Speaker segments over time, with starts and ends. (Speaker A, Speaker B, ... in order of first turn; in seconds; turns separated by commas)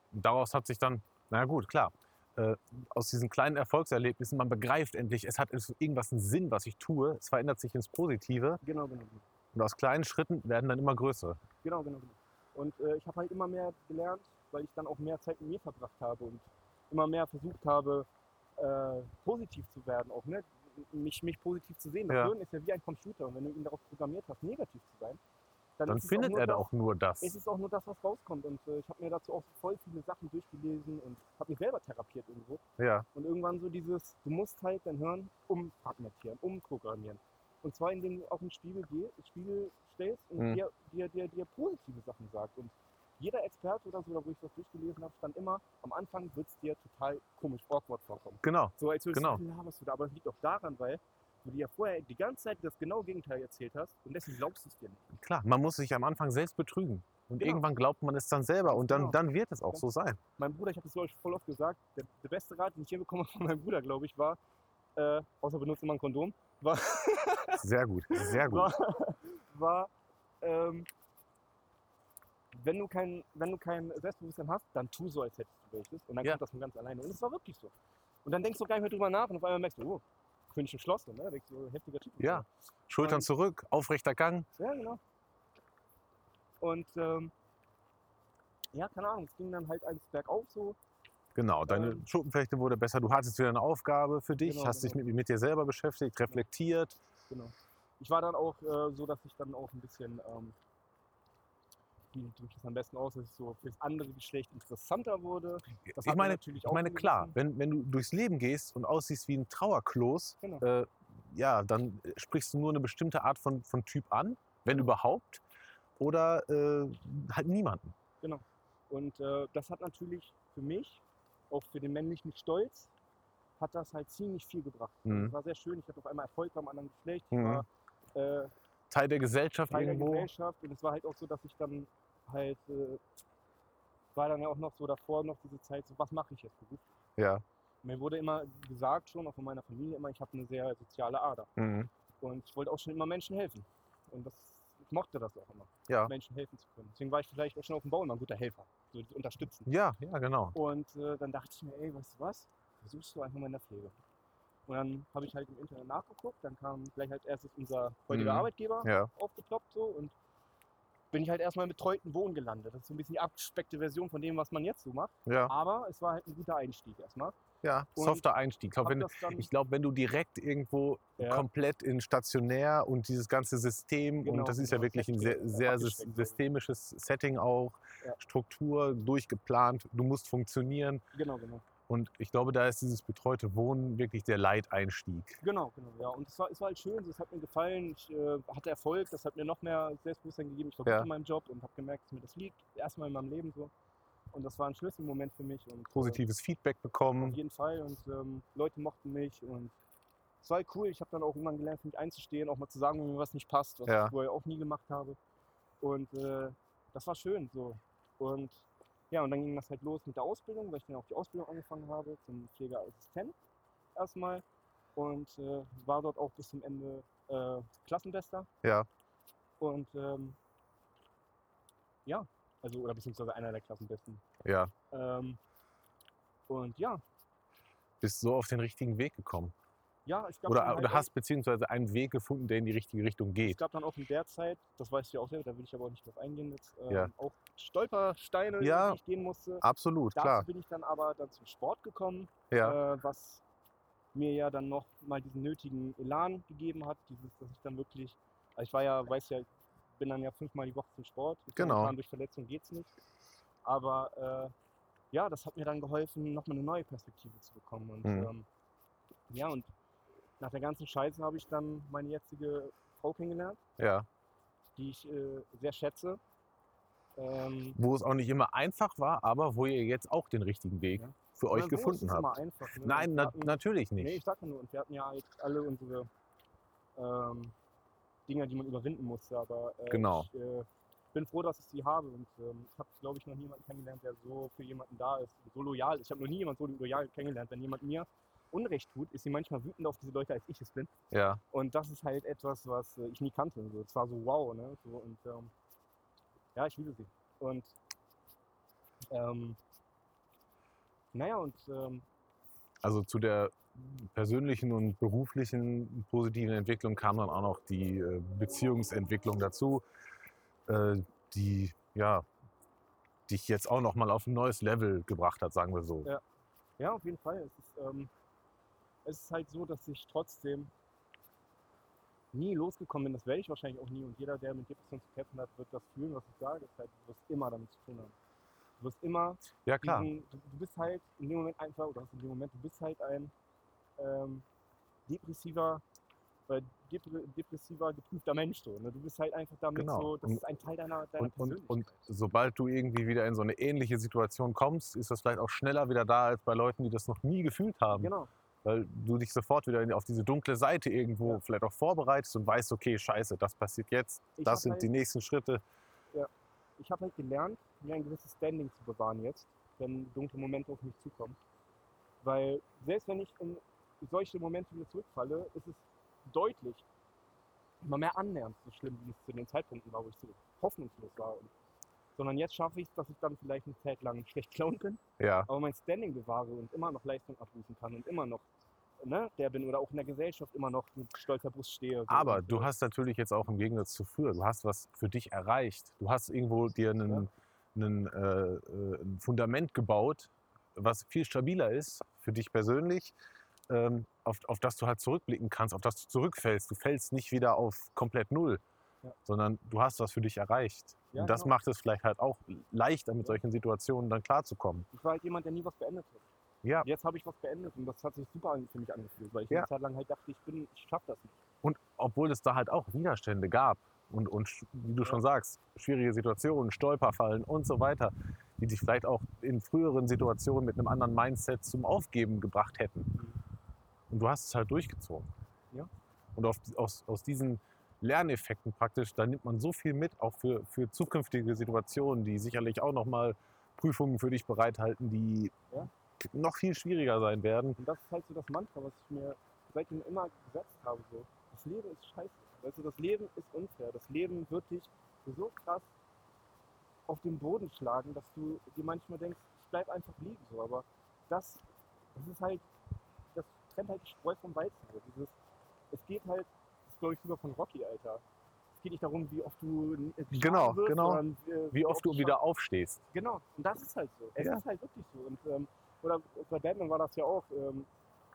Speaker A: 0.1-8.6, Speaker B: 8.6-9.2, Speaker A: 9.5-11.4, Speaker B: 11.6-25.2, Speaker A: 22.1-22.3, Speaker B: 25.8-26.7, Speaker A: 25.9-27.4, Speaker B: 27.2-32.6, Speaker A: 32.8-33.0, Speaker B: 33.1-55.1, Speaker A: 40.4-40.6, Speaker A: 48.4-49.4, Speaker A: 55.1-60.2, Speaker B: 57.4-57.7, Speaker B: 58.7-59.2, Speaker B: 60.4-64.4, Speaker B: 65.0-69.9, Speaker A: 67.6-68.7, Speaker B: 70.4-70.9, Speaker B: 72.5-77.7, Speaker B: 78.2-82.5, Speaker A: 82.2-84.5, Speaker B: 83.0-83.3, Speaker B: 84.6-85.0, Speaker B: 86.6-87.3, Speaker B: 88.7-90.8, Speaker A: 91.3-97.0, Speaker B: 91.7-92.0, Speaker B: 94.4-95.0, Speaker B: 97.3-100.5, Speaker B: 102.1-107.3, Speaker A: 105.9-115.4, Speaker A: 116.0-117.9, Speaker B: 118.2-122.9, Speaker B: 123.6-128.5, Speaker A: 125.0-125.3, Speaker A: 127.3-127.6, Speaker A: 128.9-130.3, Speaker B: 129.7-133.0, Speaker B: 134.1-136.9, Speaker A: 137.2-137.4, Speaker B: 137.8-141.5, Speaker A: 141.6-141.9, Speaker B: 142.2-149.7, Speaker A: 149.7-150.6, Speaker B: 150.5-153.9, Speaker B: 154.7-160.1, Speaker A: 158.1-159.1, Speaker B: 161.1-167.3, Speaker A: 165.2-165.5, Speaker A: 167.6-181.0, Speaker B: 167.9-168.3, Speaker B: 168.8-169.5, Speaker B: 171.2-171.4, Speaker B: 174.2-176.4, Speaker B: 181.1-181.6, Speaker A: 181.9-185.4, Speaker B: 185.4-193.7, Speaker B: 194.3-196.2, Speaker A: 195.9-197.4, Speaker B: 197.2-199.7, Speaker B: 200.4-205.2, Speaker A: 203.9-204.1, Speaker B: 205.8-213.3, Speaker B: 213.9-214.4, Speaker B: 214.9-218.5, Speaker B: 219.6-220.4, Speaker B: 222.1-224.2, Speaker A: 224.4-224.7, Speaker B: 224.9-225.4, Speaker B: 226.5-227.0, Speaker A: 228.0-229.5, Speaker B: 230.1-231.1, Speaker A: 230.5-233.6, Speaker B: 233.4-239.6, Speaker A: 238.6-239.0, Speaker A: 239.6-240.4, Speaker B: 240.1-243.4, Speaker A: 242.5-242.8, Speaker B: 244.1-252.9, Speaker A: 251.6-251.9, Speaker B: 253.6-254.5, Speaker B: 255.1-258.4, Speaker A: 258.0-258.3, Speaker B: 259.3-259.7, Speaker B: 260.4-263.6, Speaker A: 263.8-264.1, Speaker B: 264.8-266.2, Speaker B: 267.1-267.8, Speaker A: 267.8-274.2, Speaker B: 270.9-276.1, Speaker B: 277.0-277.5, Speaker B: 278.3-290.9, Speaker A: 279.9-280.3, Speaker A: 291.1-291.4, Speaker B: 291.5-295.5, Speaker B: 296.5-297.7, Speaker B: 299.1-299.6, Speaker B: 301.1-302.0, Speaker A: 302.8-309.8, Speaker A: 310.7-312.2, Speaker A: 313.3-316.1, Speaker B: 316.8-318.1, Speaker B: 319.0-320.7, Speaker B: 322.3-328.1, Speaker B: 328.8-333.3, Speaker A: 329.6-330.1, Speaker B: 334.0-334.4, Speaker B: 335.1-335.8, Speaker B: 336.5-342.1, Speaker A: 339.8-340.4, Speaker A: 341.2-348.1, Speaker B: 347.9-348.3, Speaker A: 348.6-355.6, Speaker B: 354.4-354.9, Speaker B: 356.1-361.4, Speaker B: 362.2-366.8, Speaker B: 367.8-371.5, Speaker B: 372.1-378.4, Speaker A: 375.2-375.5, Speaker B: 379.0-382.7, Speaker A: 382.1-393.1, Speaker A: 393.7-398.6, Speaker A: 399.2-404.9, Speaker B: 401.1-401.5, Speaker B: 404.9-406.2, Speaker B: 406.8-411.4, Speaker A: 411.6-423.2, Speaker A: 424.1-425.3, Speaker A: 426.3-435.5, Speaker A: 436.2-437.8, Speaker B: 437.8-445.9, Speaker B: 447.1-451.6, Speaker B: 452.1-452.6, Speaker B: 453.3-455.4, Speaker B: 455.9-458.2, Speaker B: 458.8-462.4, Speaker A: 460.3-463.0, Speaker B: 463.1-467.9, Speaker A: 464.4-464.6